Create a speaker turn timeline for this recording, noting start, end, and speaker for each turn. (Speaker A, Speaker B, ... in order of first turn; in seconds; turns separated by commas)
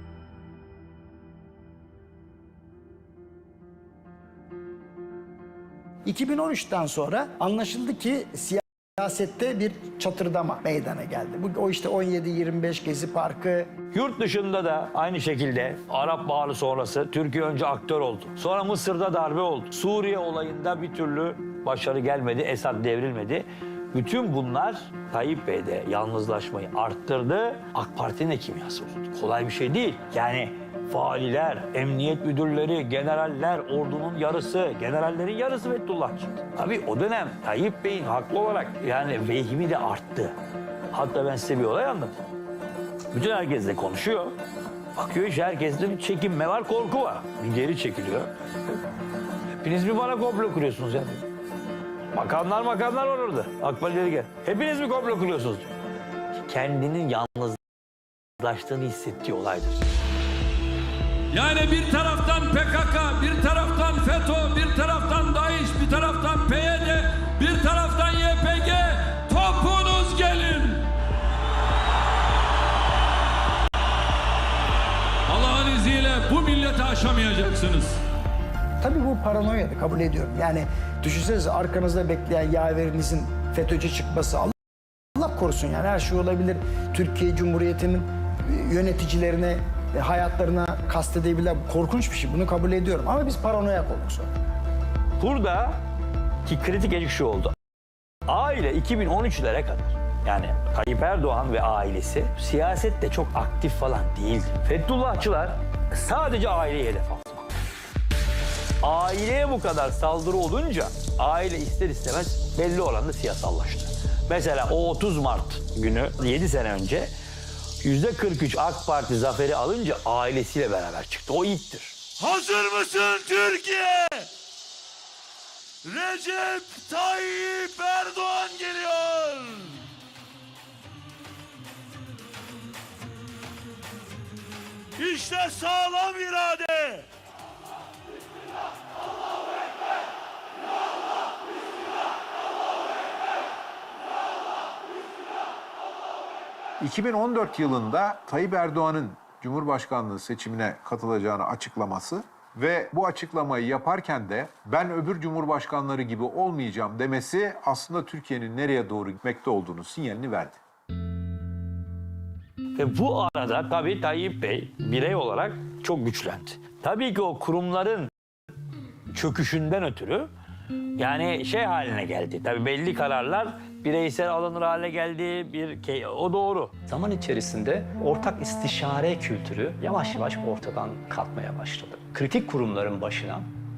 Speaker A: 6.0-13.7, Speaker B: 13.9-40.3, Speaker B: 40.9-42.1, Speaker B: 43.1-44.3, Speaker B: 45.0-48.3, Speaker B: 49.6-51.2, Speaker B: 52.1-55.7, Speaker B: 56.5-57.6, Speaker B: 58.4-59.8, Speaker C: 61.3-70.9, Speaker C: 75.3-78.0, Speaker A: 78.8-84.6, Speaker A: 85.2-94.3, Speaker B: 95.2-95.8, Speaker B: 96.5-97.5, Speaker B: 98.3-107.5, Speaker B: 108.8-117.1, Speaker B: 117.8-122.0, Speaker C: 122.2-124.2, Speaker C: 125.9-129.6, Speaker C: 135.0-137.0, Speaker D: 146.8-160.6, Speaker B: 162.8-168.1, Speaker B: 169.1-170.3, Speaker B: 171.0-176.7, Speaker E: 176.9-183.5